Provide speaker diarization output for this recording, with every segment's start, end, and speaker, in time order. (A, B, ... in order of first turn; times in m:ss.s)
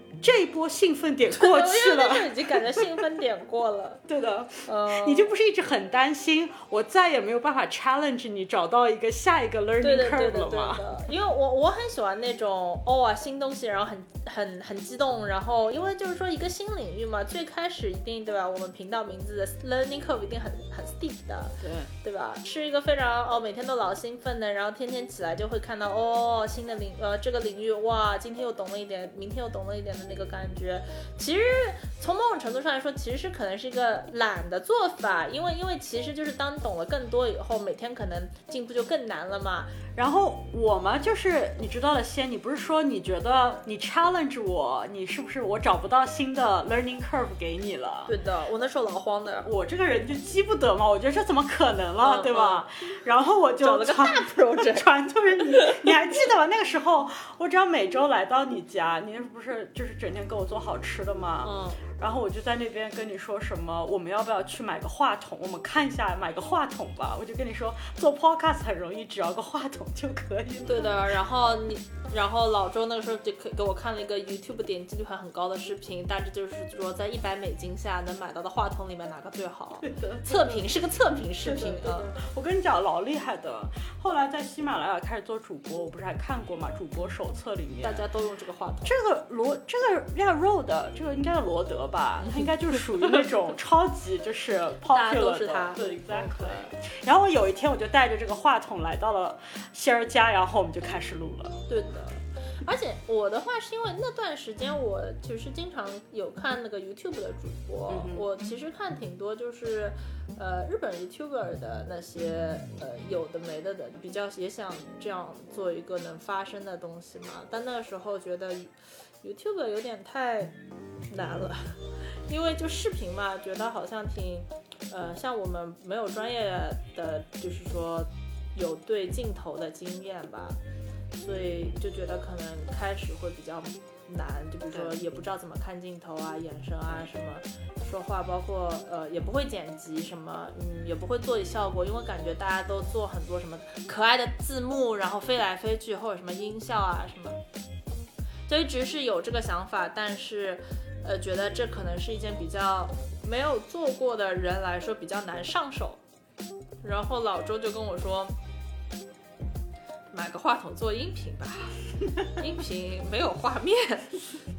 0:00.2-0:03.0 A
0:01.3-0:04.0 B
0:04.0-0:10.9 A
0:04.6-0:05.3 B
0:09.8-0:39.8 B
0:21.6-0:21.9 A
0:39.9-0:48.1 A
0:48.1-0:49.5 B
0:49.4-1:11.1 A
0:52.0-0:52.6 B
0:53.6-0:54.9 B
0:55.4-0:55.9 B
1:01.4-1:01.8 B
1:10.6-1:22.1 B
1:19.8-1:20.7 A
1:21.4-1:28.0 A
1:27.8-1:29.0 B
1:28.8-1:41.6 A
1:34.9-1:36.7 B
1:41.7-2:10.6 B
1:47.9-1:48.3 A
2:11.1-2:27.4 B
2:28.5-2:36.0 B
2:36.8-2:38.3 B
2:40.1-2:44.4 B